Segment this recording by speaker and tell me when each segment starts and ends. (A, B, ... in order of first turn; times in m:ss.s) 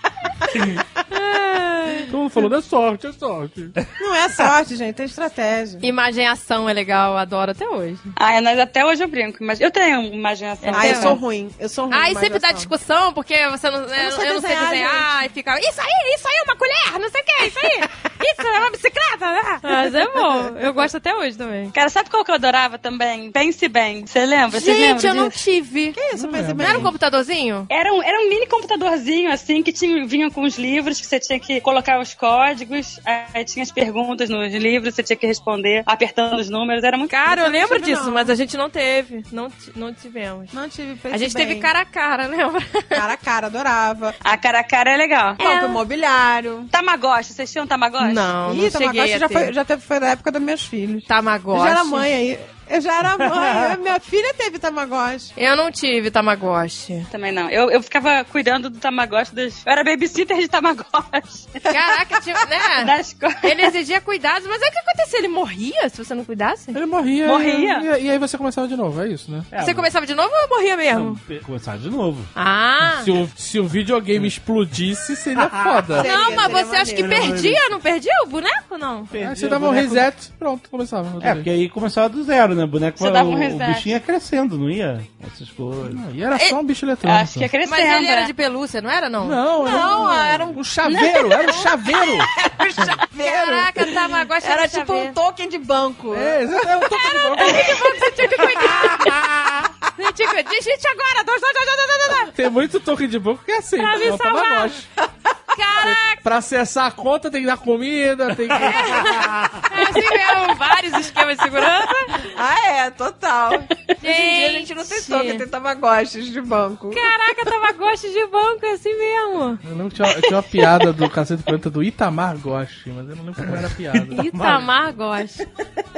0:01.1-0:02.1 A
0:02.1-0:03.7 B
0:04.0-0:05.8 C
0:05.8-0:08.1 A
0:08.2-0:11.2 D
0:10.6-0:11.2 A
0:10.7-0:12.7 C
0:11.9-0:21.7 A
0:14.0-0:15.1 C
0:20.3-0:20.5 C
0:21.7-0:25.4 D
0:24.5-0:26.0 A
0:25.9-0:27.0 C
0:26.2-0:26.9 B
0:26.6-0:27.7 A
0:27.7-0:37.2 D
0:37.1-0:40.5 A
0:37.3-0:38.3 C
0:40.5-0:41.7 C
0:41.1-0:43.1 A
0:42.9-0:44.2 C
0:44.2-0:45.4 D
0:45.4-0:45.8 A
0:45.4-0:46.7 C
0:46.7-0:48.4 D
0:48.0-0:49.5 A
0:48.4-0:55.3 C
0:51.1-0:52.1 A
0:53.1-0:53.8 E
0:55.4-0:57.1 A
0:57.1-1:01.7 D
1:01.7-1:06.8 A
1:02.8-1:03.7 D
1:06.7-1:09.5 B
1:07.2-1:07.9 D
1:09.5-1:09.9 E
1:09.6-1:11.2 A
1:10.9-1:12.3 E
1:12.4-1:13.1 A
1:12.9-1:16.1 B
1:15.4-1:17.7 E
1:16.0-1:17.4 C
1:16.0-1:19.1 A
1:19.1-1:20.1 E
1:19.2-1:21.5 B
1:21.2-1:26.0 E
1:23.0-1:23.9 D
1:25.9-1:27.5 B
1:27.0-1:28.3 D
1:27.6-1:29.4 A
1:29.2-1:32.3 B
1:29.5-1:30.6 C
1:30.8-1:31.5 D
1:31.3-1:38.9 C
1:33.2-1:35.2 A
1:36.1-1:37.7 B
1:37.0-1:39.2 A
1:38.7-1:39.6 E
1:40.0-1:42.3 A
1:42.3-1:44.9 B
1:43.8-1:44.8 A
1:45.5-1:46.2 A
1:45.8-1:49.0 B
1:48.5-1:49.7 E
1:48.6-1:52.3 A
1:52.3-1:57.1 C
1:54.0-1:55.4 A
1:56.9-1:59.6 A
1:59.6-2:04.2 B
2:04.1-2:05.4 A
2:04.2-2:04.8 E